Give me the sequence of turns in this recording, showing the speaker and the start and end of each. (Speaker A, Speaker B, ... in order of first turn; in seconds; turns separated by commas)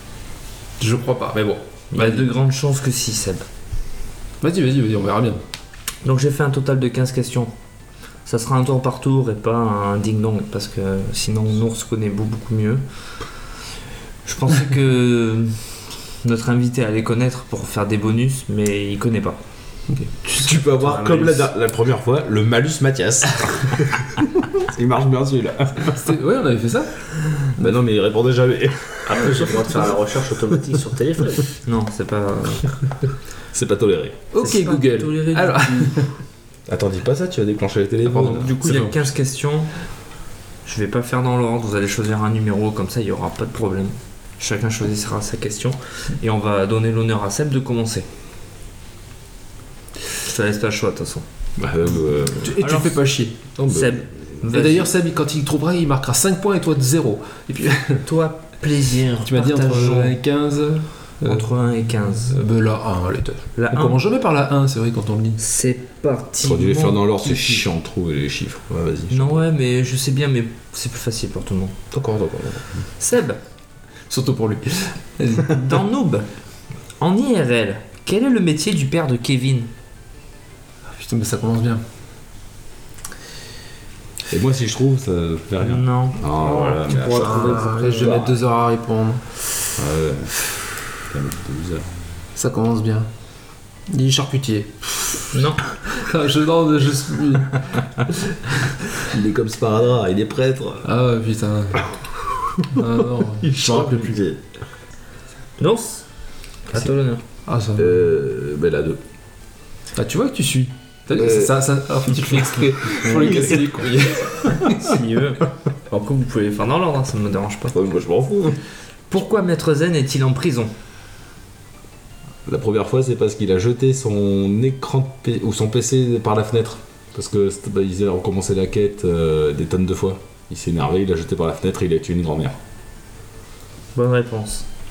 Speaker A: 0.8-2.2, Speaker B: 1.9-3.4, Speaker A: 4.4-5.4, Speaker B: 6.0-7.5, Speaker B: 8.2-12.8, Speaker B: 14.2-15.7, Speaker B: 16.2-19.4, Speaker A: 19.9-21.5, Speaker C: 20.3-26.0, Speaker A: 25.9-27.8, Speaker C: 27.6-29.8, Speaker D: 29.2-31.5, Speaker A: 29.2-29.7, Speaker B: 31.6-32.7, Speaker C: 33.5-34.2, Speaker A: 34.3-36.1, Speaker B: 34.4-36.0, Speaker C: 36.7-38.6, Speaker B: 38.0-39.7, Speaker A: 38.6-38.9, Speaker B: 40.6-48.1, Speaker B: 50.2-51.2, Speaker C: 51.6-52.6, Speaker A: 52.4-53.5, Speaker B: 52.6-52.9, Speaker B: 53.6-54.9, Speaker C: 53.6-54.0, Speaker A: 54.4-58.0, Speaker B: 58.0-60.1, Speaker A: 59.2-61.5, Speaker B: 61.2-62.4, Speaker A: 62.3-65.4, Speaker B: 63.5-64.0, Speaker B: 65.4-67.6, Speaker C: 66.4-69.4, Speaker B: 69.1-71.8, Speaker C: 71.9-72.8, Speaker B: 73.0-73.4, Speaker A: 74.1-75.6, Speaker B: 75.4-76.3, Speaker B: 77.0-79.7, Speaker A: 80.9-81.8, Speaker C: 84.3-88.4, Speaker B: 85.6-88.1, Speaker A: 86.9-89.4, Speaker D: 86.9-87.5, Speaker C: 89.8-91.9, Speaker A: 92.3-93.1, Speaker A: 93.9-98.7, Speaker B: 95.3-95.6, Speaker C: 99.0-100.9, Speaker A: 100.8-101.9, Speaker C: 102.6-102.9, Speaker A: 102.6-104.2, Speaker C: 103.4-104.4, Speaker B: 105.6-106.0, Speaker B: 106.7-107.2, Speaker A: 107.5-108.0, Speaker C: 107.8-109.0, Speaker A: 110.0-114.4, Speaker C: 111.2-114.8, Speaker B: 114.5-117.7, Speaker C: 117.7-118.6, Speaker B: 119.1-120.7, Speaker C: 122.5-132.6, Speaker B: 133.9-134.6